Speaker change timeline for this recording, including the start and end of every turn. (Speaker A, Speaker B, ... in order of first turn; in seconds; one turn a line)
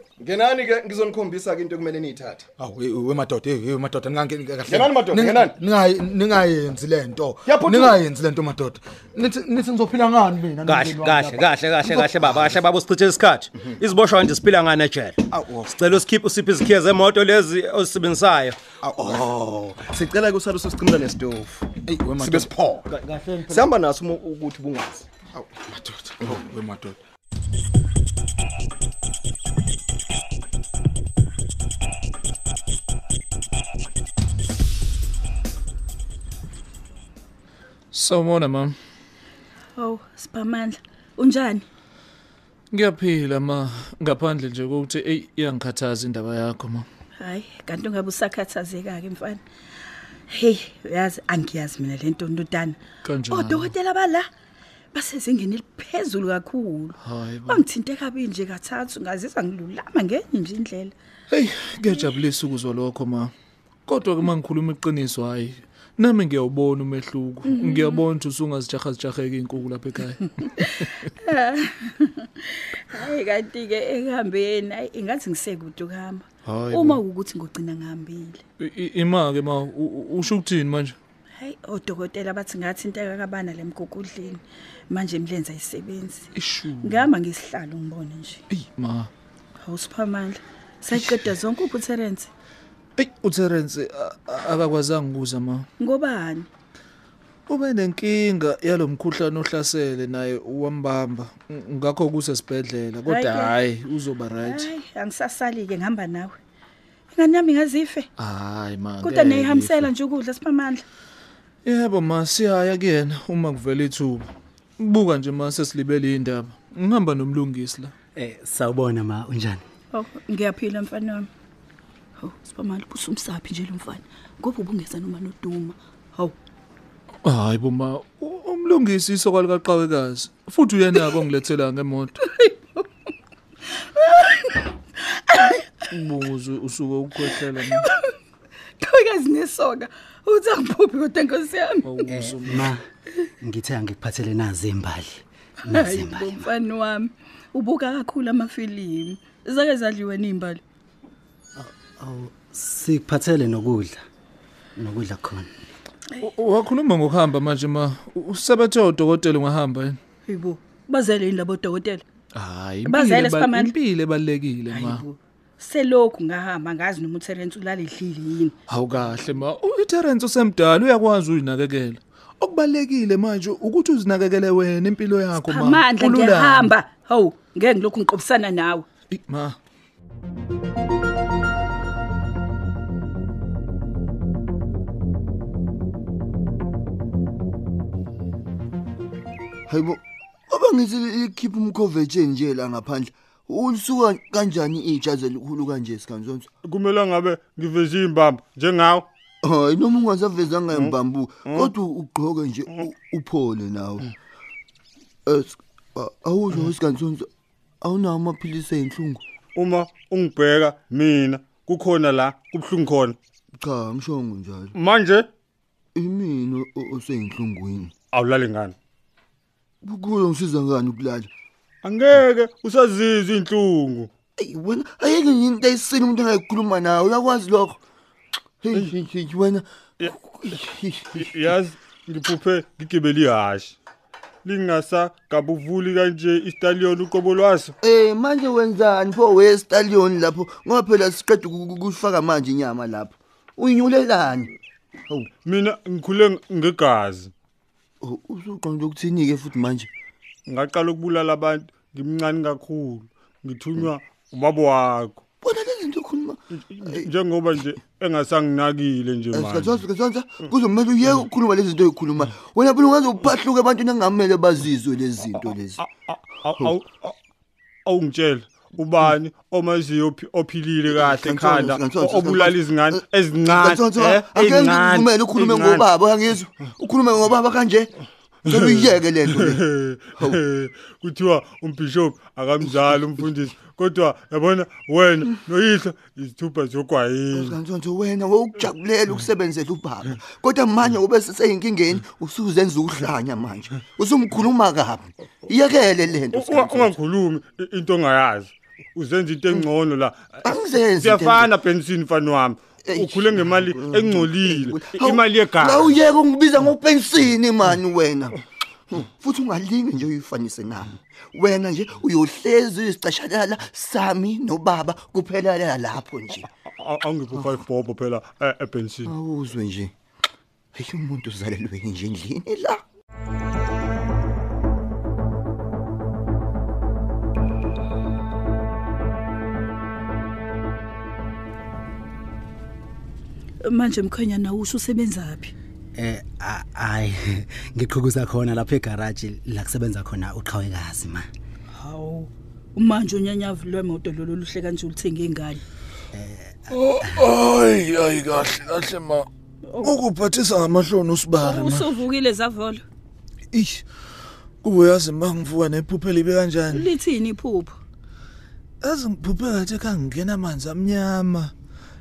Speaker A: 0.2-2.5
Speaker B: 2.6-12.6
Speaker A: 4.7-5.6
Speaker A: 7.5-8.0
Speaker C: 10.6-15.2
Speaker B: 15.3-15.9
Speaker C: 15.7-18.6
Speaker B: 18.8-19.4
Speaker A: 19.1-21.7
Speaker B: 21.9-22.9
Speaker A: 22.2-25.1
Speaker B: 25.3-27.0
Speaker D: 37.9-38.8
Speaker E: 39.8-41.6
Speaker D: 42.7-46.9
Speaker E: 47.2-49.4
Speaker E: 50.3-52.8
Speaker D: 53.0-53.7
Speaker E: 53.3-54.3
Speaker E: 54.9-60.9
Speaker D: 57.0-57.6
Speaker D: 61.3-63.3
Speaker D: 63.9-71.0
Speaker E: 67.5-68.0
Speaker E: 70.4-78.4
Speaker D: 76.5-77.0
Speaker D: 78.6-81.0
Speaker E: 81.4-88.4
Speaker D: 86.4-87.1
Speaker D: 88.5-89.1
Speaker E: 89.6-92.3
Speaker D: 90.9-91.2
Speaker D: 93.0-95.7
Speaker E: 95.8-96.5
Speaker D: 97.5-104.7
Speaker E: 103.1-103.6
Speaker E: 104.4-106.4
Speaker E: 107.1-108.1
Speaker D: 108.2-109.9
Speaker E: 109.0-110.8
Speaker D: 111.6-117.9
Speaker F: 118.2-119.6
Speaker E: 119.9-121.3
Speaker E: 122.2-126.4
Speaker D: 127.2-132.2
Speaker E: 132.2-132.9
Speaker E: 133.7-135.8
Speaker D: 135.9-137.9
Speaker E: 137.2-138.2
Speaker E: 138.8-142.1
Speaker D: 141.8-142.7
Speaker F: 142.1-142.8
Speaker F: 143.4-146.4
Speaker E: 145.7-150.6
Speaker F: 151.6-154.0
Speaker F: 154.8-155.5
Speaker D: 156.2-160.0
Speaker E: 160.3-162.0
Speaker D: 162.3-165.1
Speaker E: 162.9-163.8
Speaker E: 164.7-168.6
Speaker D: 168.7-176.7
Speaker E: 175.4-178.9
Speaker D: 179.1-179.6
Speaker G: 189.7-196.5
Speaker H: 196.6-199.1
Speaker G: 199.4-204.1
Speaker H: 200.7-201.7
Speaker G: 205.3-207.3
Speaker G: 207.8-209.2
Speaker H: 209.6-213.2
Speaker G: 213.6-214.7
Speaker H: 214.8-215.3
Speaker G: 215.9-217.9
Speaker H: 218.1-218.8
Speaker G: 219.8-221.3
Speaker H: 221.8-224.1
Speaker G: 224.4-227.8
Speaker G: 228.6-231.5
Speaker H: 231.2-233.8
Speaker H: 234.4-237.7
Speaker G: 237.8-244.5
Speaker H: 245.4-247.3
Speaker G: 248.0-249.9
Speaker H: 250.5-255.2
Speaker G: 255.4-257.1
Speaker H: 256.5-259.8
Speaker G: 259.3-265.8
Speaker H: 265.8-267.2
Speaker H: 267.9-275.9
Speaker G: 270.9-277.9
Speaker H: 278.5-287.6
Speaker G: 278.5-279.6
Speaker G: 282.6-283.0
Speaker G: 287.3-297.0
Speaker H: 296.3-306.0
Speaker G: 300.4-301.5
Speaker G: 302.9-308.4
Speaker G: 309.1-316.5
Speaker H: 316.8-319.1
Speaker G: 319.1-319.9
Speaker G: 320.7-322.8
Speaker E: 333.6-335.5
Speaker F: 335.9-341.3
Speaker E: 341.7-345.6
Speaker F: 346.1-347.2
Speaker D: 346.7-349.3
Speaker E: 349.6-350.0
Speaker D: 349.8-352.0
Speaker E: 351.4-352.8
Speaker D: 353.5-353.9
Speaker D: 354.6-356.9
Speaker E: 356.7-357.8
Speaker D: 358.8-361.5